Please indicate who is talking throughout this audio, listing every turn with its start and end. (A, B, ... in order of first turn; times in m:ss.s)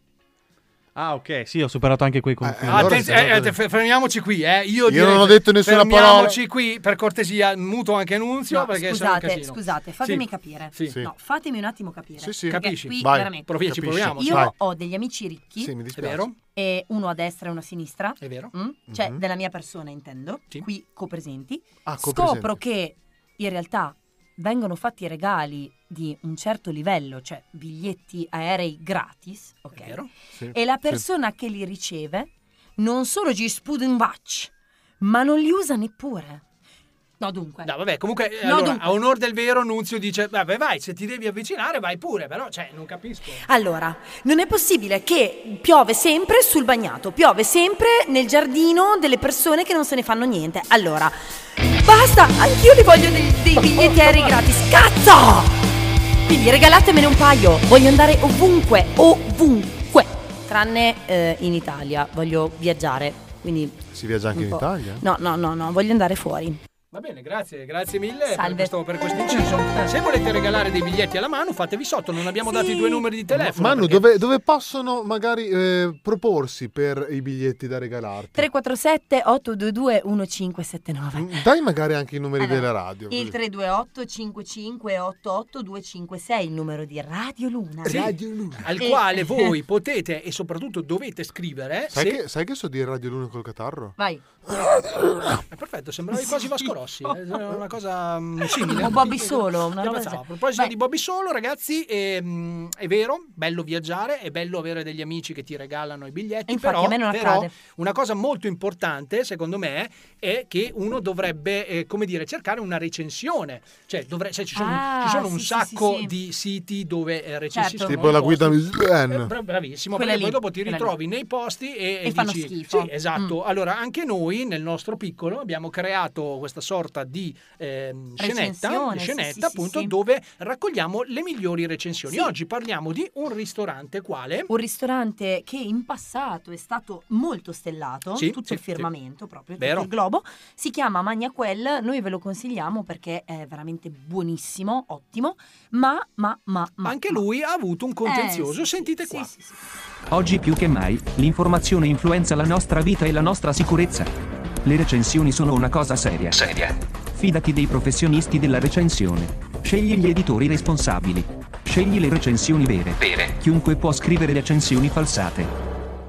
0:00.9-0:03.3 A
0:02.4-0:03.5 B
0:02.7-0:11.0 C
0:04.9-0:06.4 B
0:08.5-0:13.6 D
0:12.2-0:14.5 B
0:12.5-0:14.5 C
0:14.2-0:15.7 D
0:15.6-0:16.2 B
0:15.9-0:16.4 C
0:16.5-0:36.4 D
0:18.2-0:18.5 C
0:18.9-0:19.2 B
0:21.8-0:22.6 B
0:29.7-0:30.1 C
0:30.3-0:31.0 B
0:37.2-0:37.7 D
0:37.6-0:43.4 C
0:38.4-0:39.0 D
0:43.4-0:55.6 D
0:56.2-1:03.8 D
1:03.9-1:05.0 B
1:04.3-1:06.6 D
1:06.9-1:14.0 C
1:08.3-1:09.9 D
1:12.4-1:13.1 D
1:13.3-1:18.4 B
1:18.3-1:21.4 D
1:21.1-1:23.4 B
1:22.4-1:28.1 D
1:27.8-1:28.7 B
1:27.8-1:32.2 C
1:28.8-1:29.5 D
1:31.9-1:33.9 B
1:34.0-1:34.2 D
1:34.5-1:35.4 B
1:35.5-2:14.5 C
1:36.2-1:36.7 D
1:38.6-1:40.7 D
1:46.5-1:47.5 D
1:54.5-1:56.1 D
1:57.5-1:58.0 D
1:57.8-1:59.3 B
1:59.9-2:00.9 D
2:02.0-2:03.3 D
2:08.2-2:09.9 D
2:14.5-2:27.2 D
2:18.2-2:18.9 C
2:19.6-2:19.9 C
2:26.8-2:29.3 C
2:28.0-2:29.6 D
2:30.1-2:34.1 E
2:34.6-2:45.5 E